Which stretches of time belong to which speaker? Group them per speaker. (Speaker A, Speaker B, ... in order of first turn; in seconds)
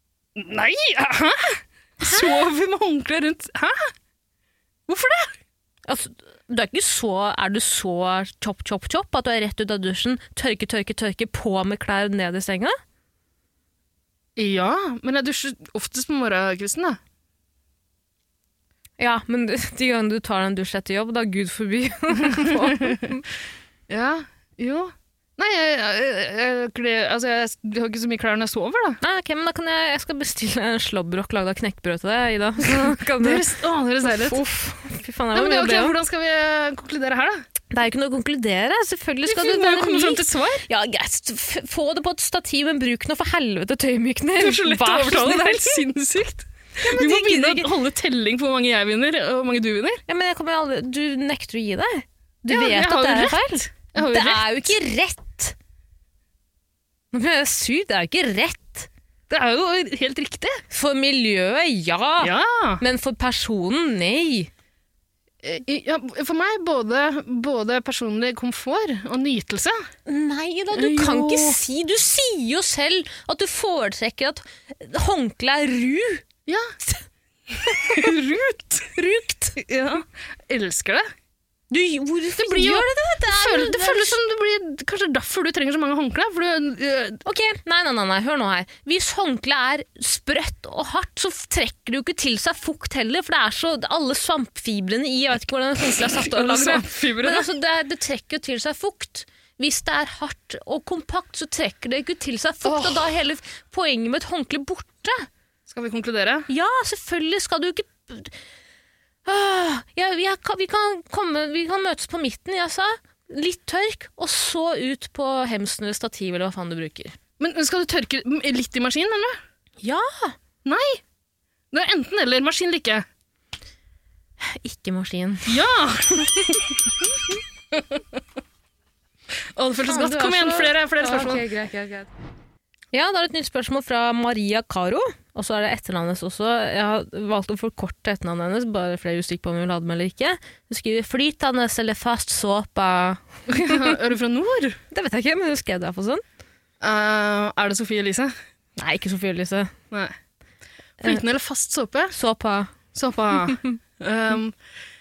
Speaker A: 0.4-3.9, 4.9-5.3, 14.4-17.0, 22.1-23.1, 23.9-29.0, 32.7-34.4, 35.3-37.4, 39.3-40.6, 44.4-50.0, 52.5-54.7, 59.3-60.6, 62.2-62.8, 65.4-69.8, 70.7-71.6, 76.5-76.8, 77.7-79.0, 79.6-81.1, 82.3-87.2, 96.0-97.5, 102.6-103.1, 105.7-106.5, 117.4-119.4, 120.7-121.0, 121.7-123.1, 125.5-127.1, 127.7-128.2, 129.5-131.4, 143.5-144.8, 146.8-148.3, 151.0-152.1, 152.9-154.6
Speaker B: 2.0-2.4, 5.9-12.8, 19.0-23.2, 29.0-33.5, 34.0-36.0, 37.7-45.8, 46.8-47.7, 50.1-55.6, 57.1-58.9, 60.7-64.5, 70.1-76.2, 77.6-78.1, 79.0-79.6, 81.7-84.2, 87.2-105.3, 106.5-108.3, 109.2-117.1, 119.8-120.3, 124.4-125.7, 129.8-132.1, 132.9-143.9, 144.9-146.2, 148.8-149.7, 152.1-152.7